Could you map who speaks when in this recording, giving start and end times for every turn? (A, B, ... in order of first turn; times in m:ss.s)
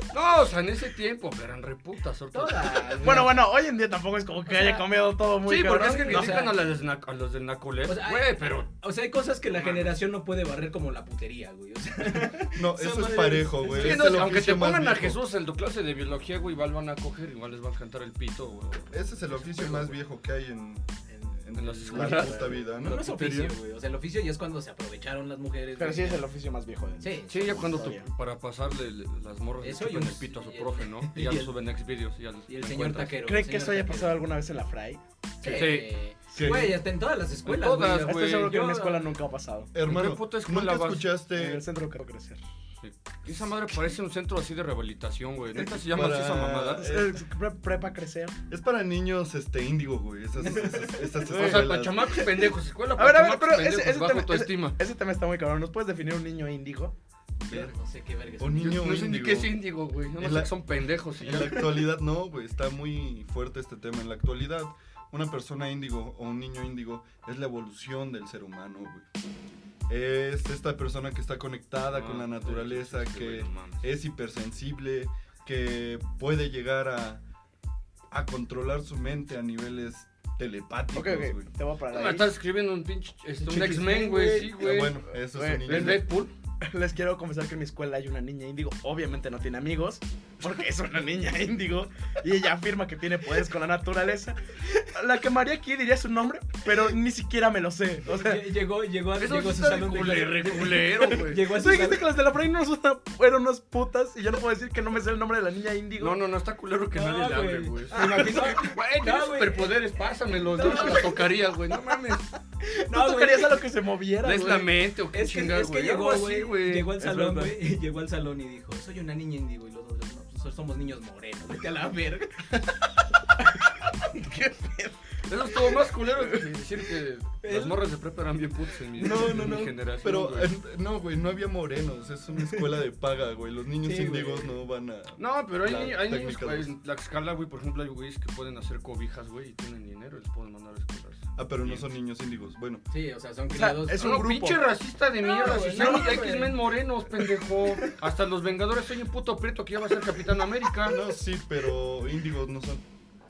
0:00.1-0:03.3 A
0:02.3-0:03.4 B
0:03.0-0:06.4 C
0:04.5-0:04.8 B
0:05.4-0:08.7 A
0:05.9-0:06.6 B
0:07.9-0:14.1 B
0:09.6-0:09.9 A
0:12.5-0:15.2 D
0:13.7-0:20.0 A
0:18.9-0:23.4 D
0:21.6-0:23.6 A
0:21.9-0:22.6 C
0:22.8-0:26.2 B
0:25.8-0:28.1 C
0:27.0-0:27.6 B
0:27.3-0:33.2 A
0:29.6-0:31.5 B
0:32.5-0:34.2 B
0:33.2-0:35.0 C
0:35.4-0:39.0 B
0:35.4-0:36.0 A
0:36.3-0:36.7 C
0:36.3-0:36.8 D
0:37.5-0:38.5 A
0:37.9-0:39.7 C
0:39.7-0:41.6 D
0:39.8-0:41.1 A
0:41.3-0:42.4 C
0:42.8-0:47.0 A
0:45.9-0:47.2 D
0:46.8-0:48.4 C
0:48.5-0:52.2 D
0:50.5-0:50.9 B
0:51.3-0:54.8 A
0:51.3-0:51.7 C
0:53.0-0:56.9 C
0:57.4-0:57.7 D
0:57.5-0:58.9 B
0:58.4-0:59.6 D
0:58.6-1:01.9 A
1:00.2-1:00.6 D
1:01.1-1:09.0 D
1:09.9-1:17.2 D
1:11.9-1:13.8 A
1:18.1-1:21.5 D
1:20.9-1:22.3 C
1:21.9-1:26.3 A
1:23.4-1:24.7 B
1:24.6-1:26.1 D
1:25.3-1:26.0 C
1:26.6-1:38.4 C
1:38.0-1:42.1 B
1:39.2-1:41.5 A
1:41.4-1:46.2 C
1:46.0-1:52.3 A
1:46.9-1:49.8 B
1:47.9-1:48.7 C
1:50.5-1:51.2 B
1:50.6-1:51.2 C
1:52.6-1:53.6 B
1:52.9-1:54.7 C
1:54.2-1:56.9 A
1:55.1-2:02.6 B
1:57.0-1:57.5 C
2:04.1-2:06.4 C
2:05.3-2:10.5 A
2:07.4-2:07.8 B
2:09.0-2:16.7 D
2:09.0-2:09.5 C
2:13.8-2:14.6 B
2:15.2-2:21.8 A
2:21.4-2:22.8 D
2:22.9-2:24.1 B
2:23.5-2:24.7 C
2:24.0-2:31.0 A
2:25.2-2:26.6 B
2:25.5-2:26.4 C
2:27.2-2:27.9 C
2:30.9-2:32.8 D